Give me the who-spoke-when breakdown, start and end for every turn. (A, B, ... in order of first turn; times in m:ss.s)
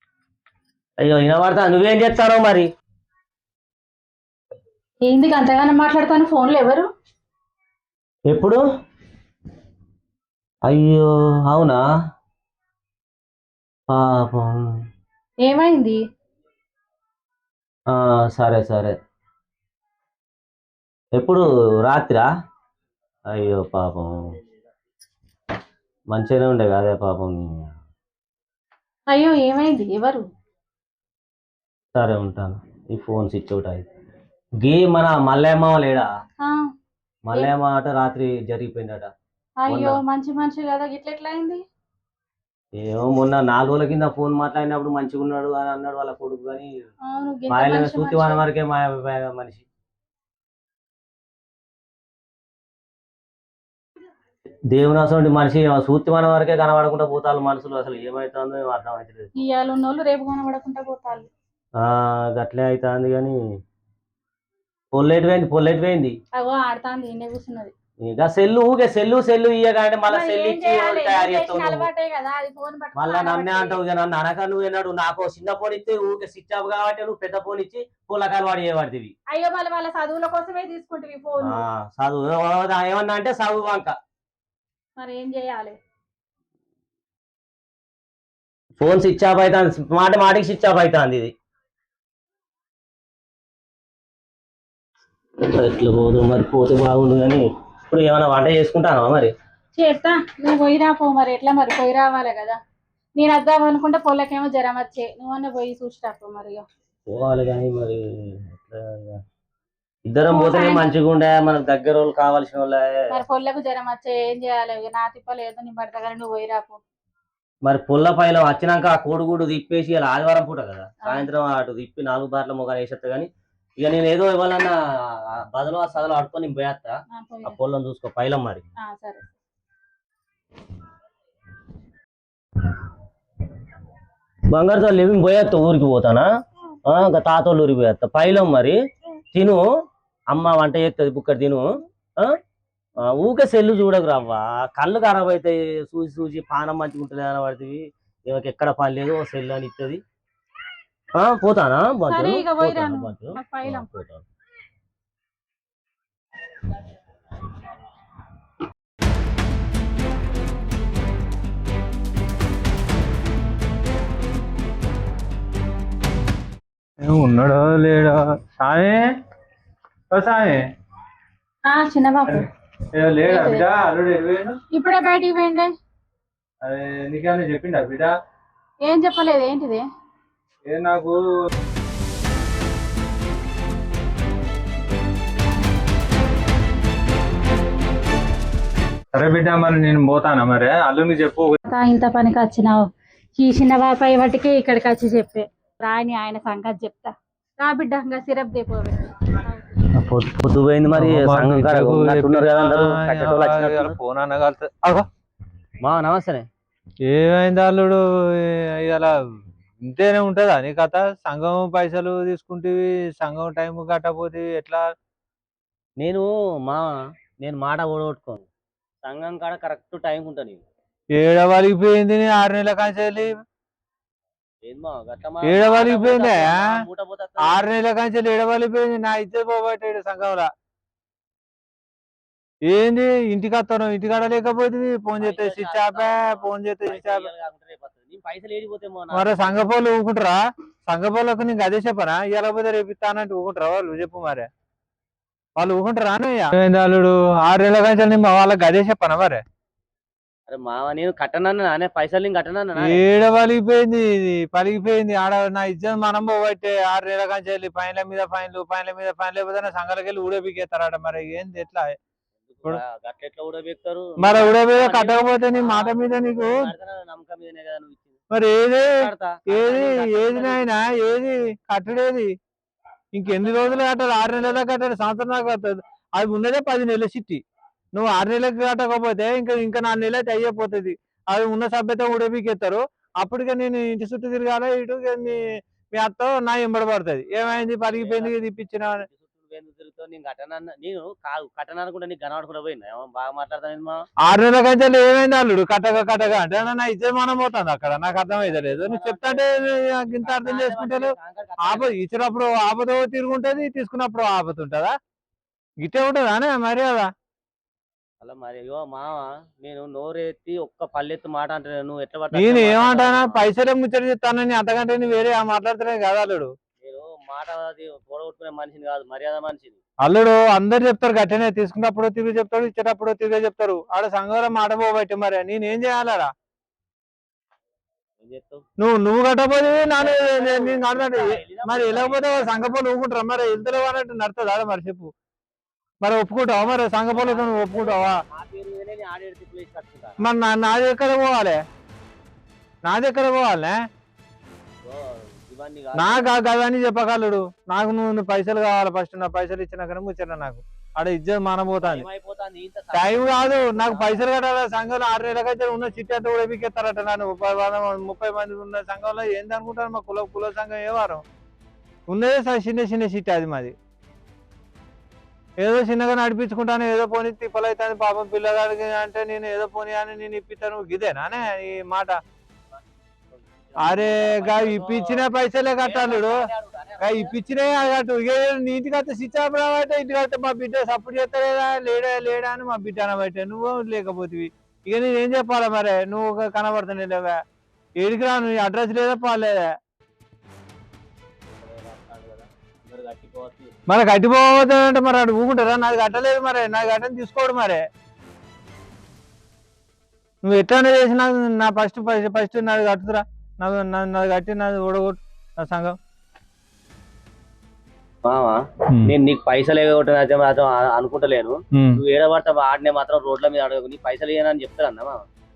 0:01.0-0:02.7 A
0:05.0-0:06.9 B
0:08.3-0:08.6 A
0:10.7-0:11.8 A
0:13.9-0:14.6 A
0:15.4-0:16.0 B
0:17.9-0:19.0 A
0:21.2-0:22.2 A
0:23.3-0:24.2 A
0:26.1-0:27.7 A
0:29.1-0:30.2 B
0:32.0-0:33.9 A
0:34.6-0:36.1 A
0:37.2-0:39.1 A
0:39.6-0:41.6 B
0:39.7-0:40.0 A
0:42.8-0:46.7 A
0:47.1-0:48.4 B
0:47.5-0:49.6 A
0:54.7-0:59.3 A
0:59.4-1:01.3 B
1:01.8-1:03.4 A
1:04.9-1:06.2 A
1:06.3-1:07.7 B
1:08.0-1:11.9 A
1:10.1-1:13.8 B
1:13.0-1:19.1 A
1:19.3-1:21.6 B
1:21.4-1:23.9 A
1:25.0-1:25.8 B
1:28.8-1:31.3 A
1:35.4-1:39.3 A
1:39.8-1:42.6 B
1:43.2-1:46.6 B
1:47.1-1:49.2 A
1:50.1-1:52.9 A
1:50.3-1:50.9 B
1:53.1-1:56.8 B
1:57.7-2:04.8 A
2:05.5-2:08.6 A
2:07.1-2:07.6 B
2:08.8-2:09.2 B
2:14.5-2:16.3 A
2:16.9-2:18.8 A
2:19.3-2:19.6 A
2:20.3-2:21.7 A
2:23.1-2:30.0 A
2:31.2-2:34.2 A
2:32.0-2:33.9 B
2:47.0-2:49.0 C
2:50.1-2:50.6 C
2:51.7-2:52.4 B
2:53.0-2:54.6 C
2:53.3-2:53.6 B
2:54.7-2:55.7 B
2:56.6-2:58.1 C
2:58.8-2:59.8 B
3:00.7-3:01.2 C
3:09.1-3:11.6 C
3:11.6-3:12.9 B
3:13.4-3:19.8 B
3:19.9-3:24.0 A
3:20.9-3:25.0 C
3:25.8-3:26.5 A
3:27.1-3:29.2 C
3:29.8-3:34.8 C
3:36.0-3:36.9 A
3:37.4-3:38.5 A
3:39.0-3:40.6 A
3:41.2-3:43.4 C
3:44.6-3:47.6 A
3:45.4-3:46.7 C
3:47.4-3:50.5 C
3:52.7-3:57.3 C
3:55.2-3:59.6 A
3:59.1-4:04.5 C
4:05.6-4:09.4 C
4:10.5-4:13.0 A
4:12.8-4:22.0 C
4:22.5-4:28.2 A
4:24.2-4:26.7 C
4:28.3-4:32.3 C
4:29.0-4:30.7 A
4:33.1-4:37.4 C
4:33.3-4:33.8 A
4:37.9-4:49.1 C
4:47.4-4:48.4 A
4:49.0-4:54.0 A
4:54.2-5:04.9 C
4:58.3-5:02.0 A
5:05.8-5:07.1 C
5:08.2-5:13.5 A
5:12.3-5:16.5 C
5:16.8-5:19.8 A
5:20.0-5:26.3 C
5:28.2-5:28.6 A
5:28.8-5:35.1 C
5:30.0-5:32.8 A
5:36.0-5:38.2 C
5:36.7-5:40.2 A
5:40.2-5:41.6 C
5:42.9-5:43.8 C
5:44.8-5:46.3 A
5:45.9-5:52.1 C
5:51.8-5:54.2 A
5:52.9-6:01.2 C
6:02.1-6:03.7 C
6:05.6-6:12.2 C
6:13.3-6:15.3 A
6:13.8-6:16.4 C
6:15.8-6:17.4 A
6:17.0-6:27.4 C
6:28.0-6:29.7 C
6:31.6-6:33.8 A
6:33.9-6:37.8 C
6:40.4-6:45.9 C
6:48.2-6:55.2 A
6:51.8-6:52.0 C